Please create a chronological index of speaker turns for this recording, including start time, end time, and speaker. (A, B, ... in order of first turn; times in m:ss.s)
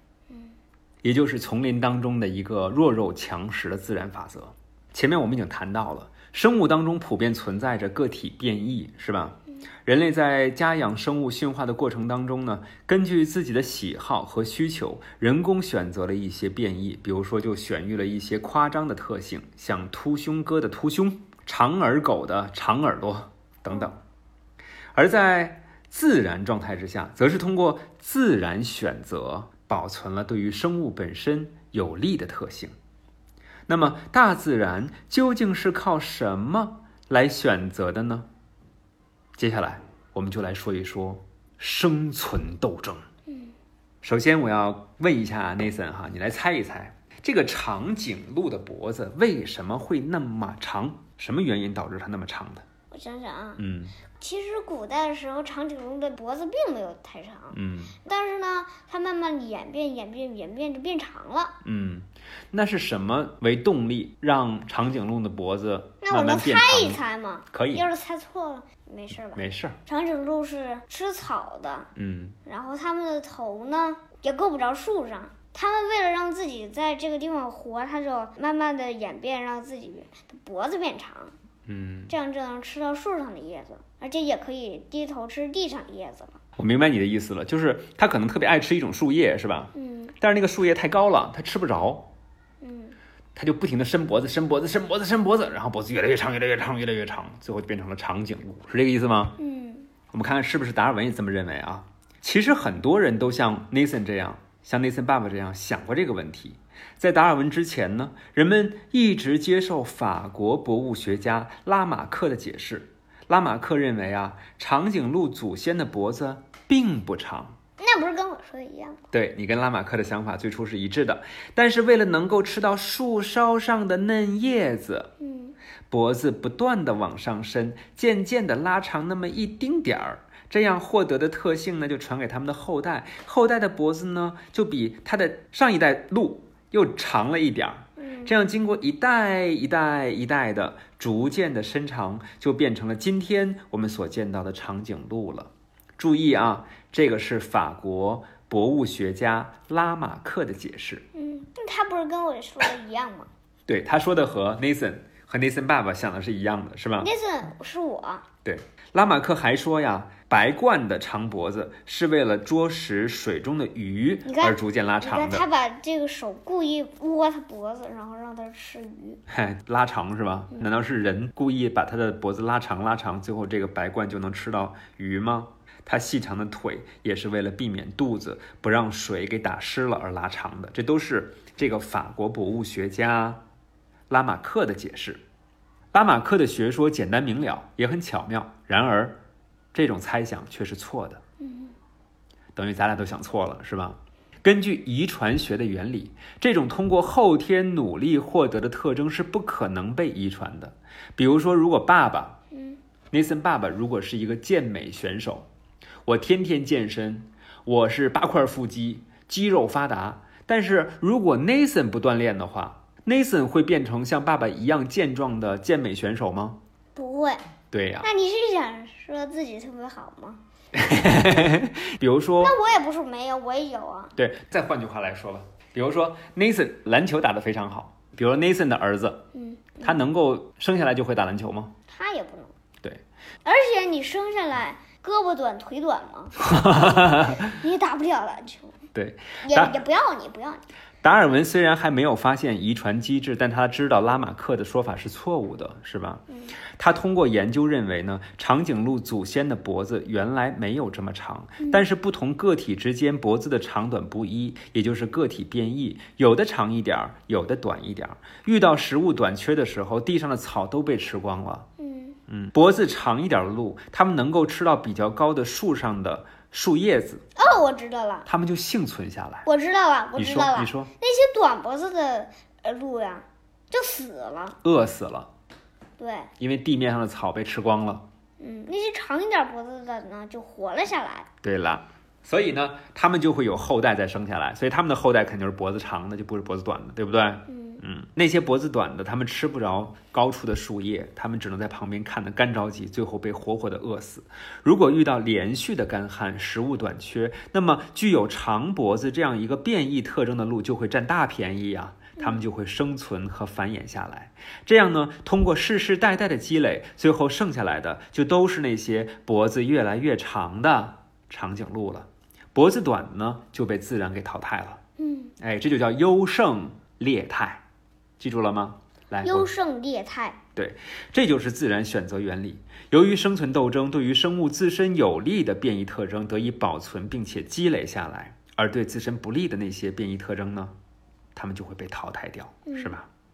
0:01.0-0:24.0 A
0:25.0-0:32.7 A
0:33.7-0:38.3 A
0:39.4-0:43.0 A
0:43.3-0:43.6 B
0:44.0-0:52.7 A
0:52.9-0:53.6 B
0:53.6-0:54.0 A
0:54.2-1:01.6 B
0:57.5-0:58.0 A
1:01.6-1:07.9 A
1:06.0-1:11.9 B
1:09.4-1:09.8 A
1:12.0-1:12.4 A
1:12.5-1:21.4 B
1:21.7-1:22.1 A
1:22.1-1:26.4 B
1:26.6-1:32.1 A
1:29.7-1:30.1 B
1:32.6-1:33.0 B
1:33.4-1:39.4 A
1:39.4-1:39.9 B
1:40.1-1:57.6 A
1:57.8-1:59.0 B
1:59.1-2:05.1 A
2:05.2-2:05.6 B
2:05.9-2:31.0 A
2:18.0-2:18.3 B
2:31.1-2:33.3 B
2:33.7-2:37.1 A
2:37.0-2:38.3 B
2:38.4-2:45.5 A
2:44.2-2:49.2 B
2:49.3-3:03.4 A
3:04.1-3:05.2 A
3:05.9-3:09.2 A
3:09.7-3:11.2 A
3:11.4-3:11.8 B
3:12.6-3:22.4 A
3:22.5-3:22.8 B
3:23.1-3:25.5 A
3:26.1-3:36.6 A
3:37.0-3:37.4 B
3:37.7-3:38.1 A
3:38.0-3:40.4 B
3:40.7-3:42.6 A
3:42.4-3:44.2 B
3:44.2-3:49.3 A
3:49.3-3:50.0 B
3:49.8-3:51.7 A
3:51.9-3:52.5 B
3:53.4-3:56.4 B
3:56.4-3:57.4 A
3:57.1-3:58.8 B
3:58.9-3:59.8 A
3:59.4-4:00.6 B
4:01.0-4:06.2 A
4:06.8-4:21.7 A
4:21.8-4:22.2 B
4:22.3-4:27.2 A
4:27.4-4:28.3 B
4:28.3-4:29.5 A
4:29.4-4:34.6 B
4:30.2-4:30.9 A
4:34.6-4:35.3 A
4:36.0-4:36.3 B
4:36.4-4:38.0 A
4:38.4-4:41.3 B
4:41.4-5:14.8 A
4:47.5-4:47.8 B
5:15.0-5:15.3 B
5:15.4-5:17.6 A
5:18.2-5:19.5 A
5:19.2-5:20.4 B
5:20.6-5:30.7 A
5:31.4-5:33.1 A
5:32.7-5:32.9 B